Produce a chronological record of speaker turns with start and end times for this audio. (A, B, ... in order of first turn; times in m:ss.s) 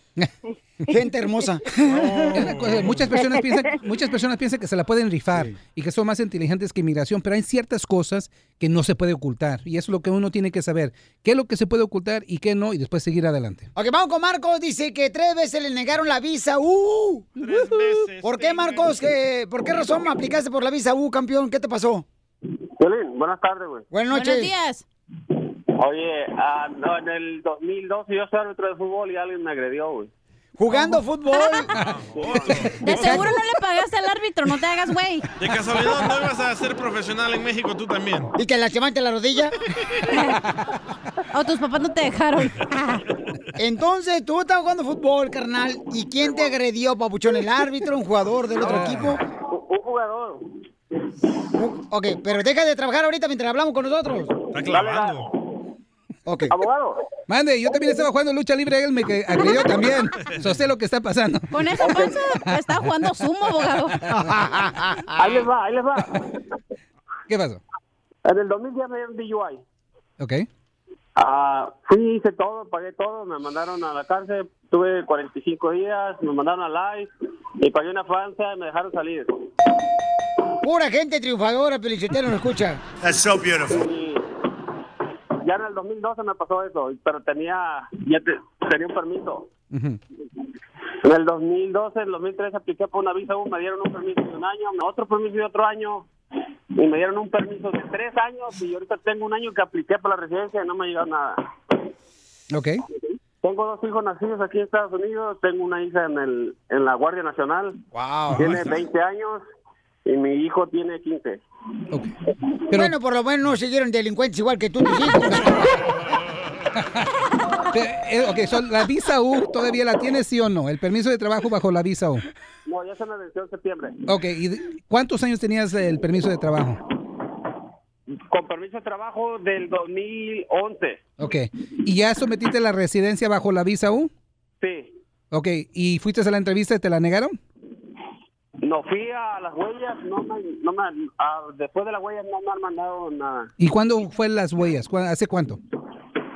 0:00.9-0:02.5 A
0:01.9-0:03.0 B
0:02.0-0:13.7 C
0:13.8-0:17.3 A
0:17.4-0:19.0 B
0:18.2-0:22.0 A
0:22.8-0:23.8 D
0:23.9-0:24.5 A
0:24.1-0:24.8 E
0:25.8-0:30.1 D
0:30.6-0:31.7 A
0:30.7-0:31.6 E
0:31.8-0:33.2 B
0:32.8-0:33.3 A
0:32.8-0:35.2 E
0:35.4-0:38.3 B
0:38.4-0:39.6 A
0:41.3-0:43.0 E
0:43.6-0:49.2 A
0:48.6-0:49.2 C
0:49.3-0:50.5 D
0:51.5-0:54.3 A
0:54.5-0:55.4 D
0:54.5-0:55.3 B
0:56.2-0:56.5 A
0:56.5-0:57.0 D
0:57.3-1:01.9 C
0:57.7-0:58.0 D
1:01.5-1:04.0 E
1:01.8-1:02.1 D
1:04.2-1:05.2 A
1:05.2-1:06.2 D
1:07.3-1:07.6 C
1:08.2-1:09.6 D
1:10.2-1:10.5 C
1:11.2-1:17.1 D
1:17.6-1:19.3 D
1:20.6-1:22.8 A
1:23.7-1:24.2 D
1:25.4-1:29.5 D
1:29.7-1:30.0 C
1:31.0-1:36.1 D
1:36.7-1:41.5 D
1:42.5-1:42.8 C
1:43.0-1:47.8 D
1:47.9-1:48.6 A
1:48.3-1:49.4 D
1:48.3-1:48.7 C
1:50.0-1:51.4 D
1:52.7-1:55.8 A
1:57.7-2:02.2 C
2:02.6-2:04.0 D
2:04.1-2:06.8 C
2:08.3-2:11.0 D
2:11.2-2:14.1 C
2:14.6-2:14.9 D
2:15.3-2:17.4 C
2:18.6-2:23.5 D
2:23.6-2:25.6 C